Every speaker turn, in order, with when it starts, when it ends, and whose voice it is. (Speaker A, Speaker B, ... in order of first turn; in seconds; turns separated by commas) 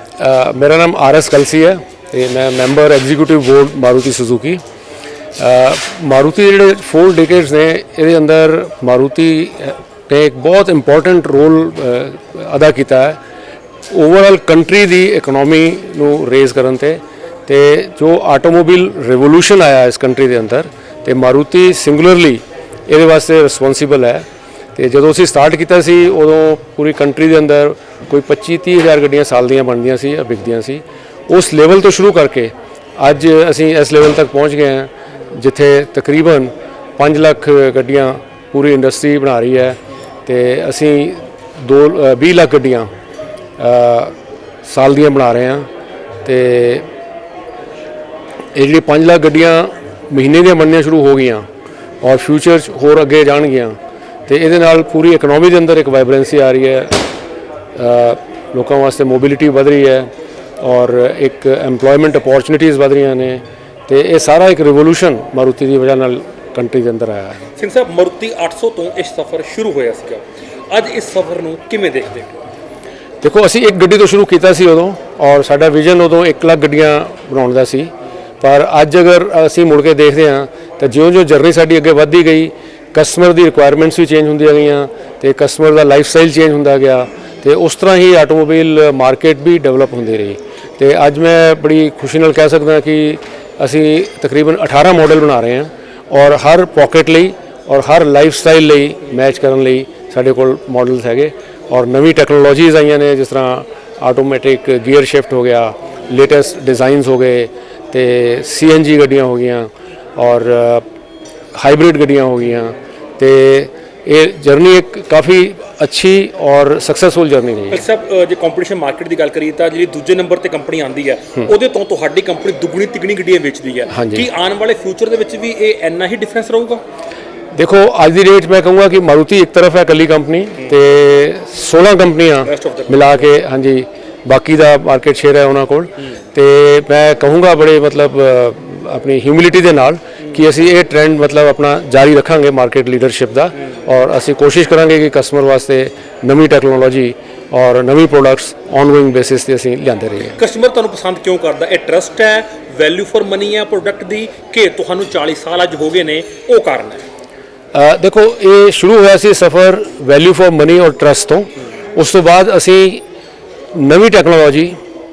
Speaker A: 0.2-4.6, Speaker A: 5.4-13.2, Speaker A: 13.9-24.2, Speaker A: 24.8-42.9, Speaker A: 43.6-44.1, Speaker A: 44.6-45.7, Speaker A: 46.2-46.9, Speaker A: 48.5-51.5, Speaker A: 52.0-57.0, Speaker A: 57.8-60.1, Speaker A: 60.6-67.4, Speaker B: 67.6-72.4, Speaker A: 73.2-77.9, Speaker A: 78.4-110.8, Speaker A: 111.5-117.8, Speaker B: 117.7-126.8, Speaker A: 123.9-124.2, Speaker A: 127.5-150.4, Speaker B: 132.5-133.2, Speaker B: 150.4-157.0, Speaker A: 157.7-163.0, Speaker A: 163.7-164.8